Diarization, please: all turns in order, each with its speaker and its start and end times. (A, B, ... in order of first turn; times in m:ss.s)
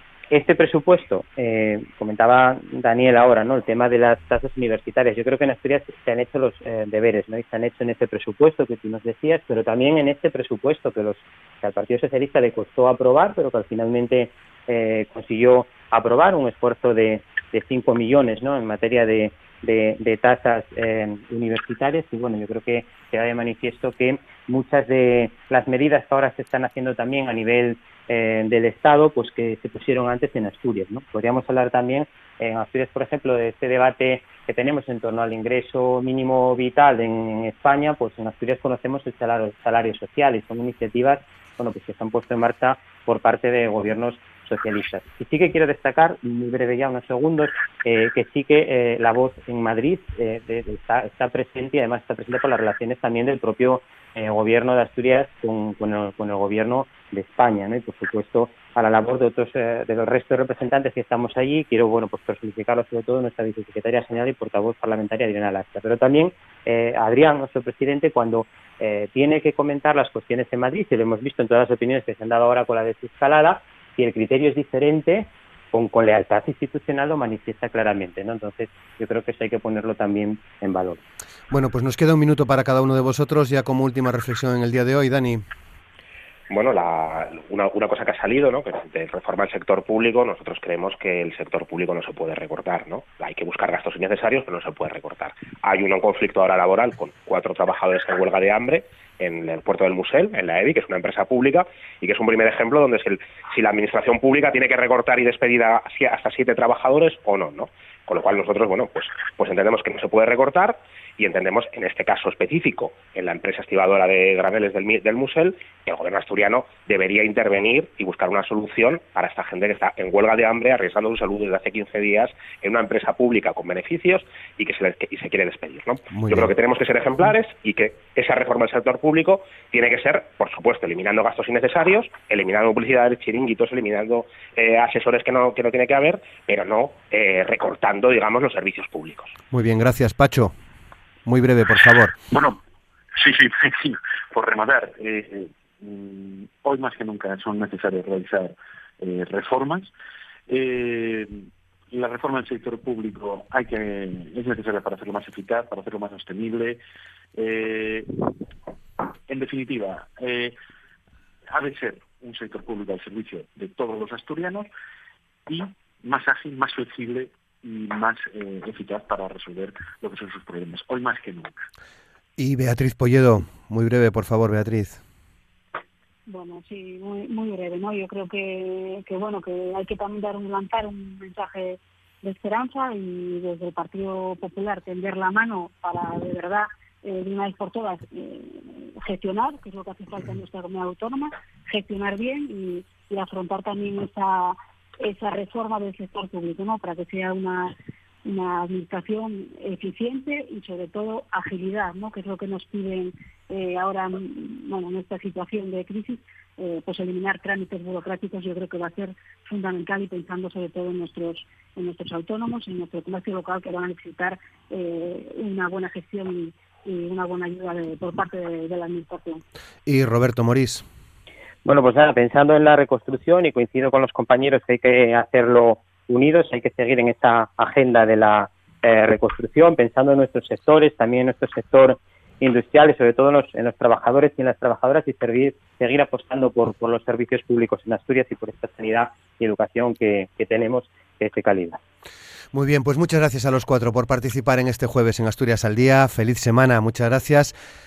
0:00.3-1:21.0 A
1:21.5-1:25.4 B
1:26.5-2:19.4 C
2:06.1-2:06.5 B
2:19.5-2:20.5 B
2:21.2-2:22.1 B
2:22.3-2:22.6 D
2:23.1-2:29.9 D
2:30.5-2:36.8 D
2:37.3-2:38.1 D
2:39.3-2:40.5 D
2:41.5-2:44.7 D
2:45.5-2:51.6 D
2:52.4-2:55.0 B
2:56.3-3:39.4 E
3:39.8-3:40.8 B
3:41.6-4:01.8 A
4:02.5-4:07.5 B